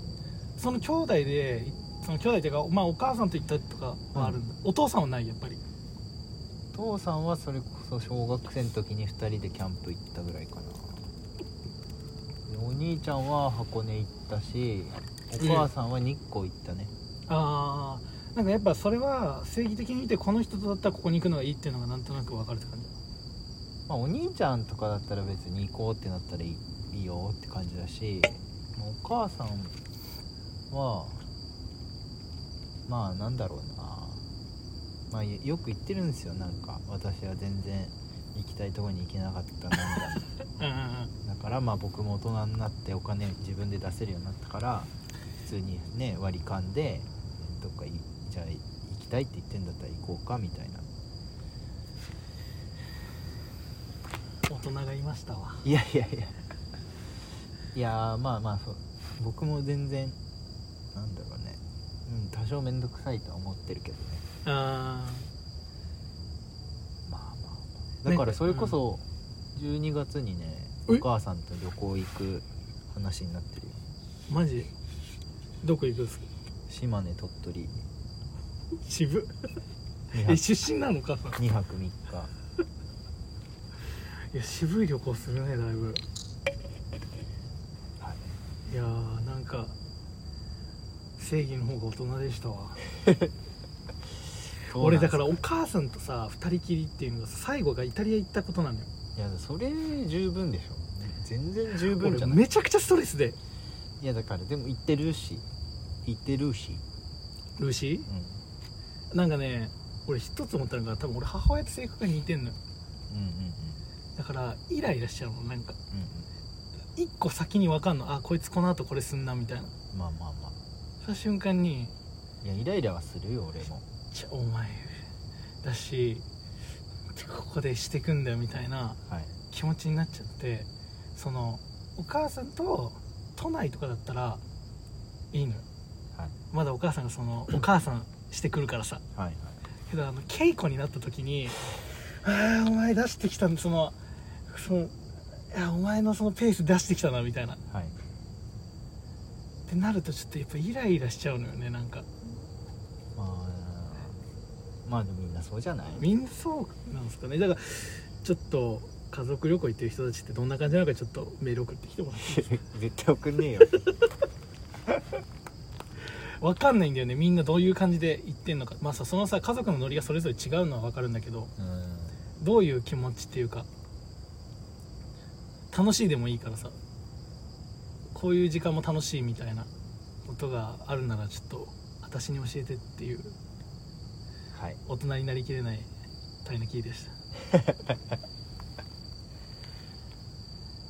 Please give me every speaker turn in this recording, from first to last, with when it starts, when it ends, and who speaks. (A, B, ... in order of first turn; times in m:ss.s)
0:00.6-0:05.6 A
0:04.1-0:04.4 B
0:06.7-0:11.1 B
0:12.5-0:16.9 B
0:15.4-0:15.7 A
0:17.3-0:22.9 A
0:23.9-0:29.8 B
0:30.7-0:31.2 B
0:32.9-0:34.3 B
0:35.1-0:40.3 B
0:40.6-0:41.1 A
0:41.2-0:44.9 B
0:45.4-0:50.8 B
0:54.5-0:55.6 A
0:55.6-0:56.3 B
0:57.7-1:00.2 B
1:00.9-1:04.2 B
1:04.4-1:05.3 A
1:07.1-1:13.8 B
1:08.1-1:08.8 A
1:14.3-1:14.7 A
1:15.6-1:16.3 A
1:16.7-1:17.8 B
1:18.8-1:19.3 A
1:20.1-1:20.4 B
1:20.2-1:21.4 A
1:21.4-1:22.3 B
1:24.3-1:26.0 A
1:28.0-1:28.3 B
1:28.7-1:29.8 A
1:31.2-1:32.8 A
1:34.7-1:35.4 B
1:34.7-1:38.9 A
1:39.2-1:42.4 B
1:41.8-1:43.4 A
1:44.0-1:45.5 B
1:46.0-1:46.8 B
1:47.6-1:48.1 A
1:48.1-1:48.4 B
1:49.1-1:52.6 A
1:53.1-1:53.8 B
1:54.2-1:55.8 A
1:55.9-1:56.3 B
1:57.0-1:59.7 A
1:59.9-2:00.6 B
2:01.0-2:01.9 A
2:02.4-2:03.8 B
2:04.1-2:05.0 A
2:05.6-2:06.2 A
2:07.1-2:09.0 A
2:09.5-2:14.4 A
2:15.3-2:15.6 A
2:16.5-2:19.0 A
2:19.2-2:19.6 B
2:19.9-2:24.0 A
2:24.5-2:25.0 A
2:25.5-2:27.6 A
2:27.7-2:28.0 B
2:29.7-2:32.1 A
2:33.2-2:34.2 B
2:34.8-2:36.0 B
2:36.0-2:42.6 A
2:42.2-2:43.8 B
2:46.4-2:51.5 A
2:51.6-2:52.2 B
2:52.4-2:53.7 A
2:55.7-2:56.8 A
2:58.1-2:59.7 A
3:00.2-3:03.4 A
3:04.5-3:04.8 B
3:04.8-3:05.9 A
3:06.4-3:07.1 A
3:07.5-3:08.0 B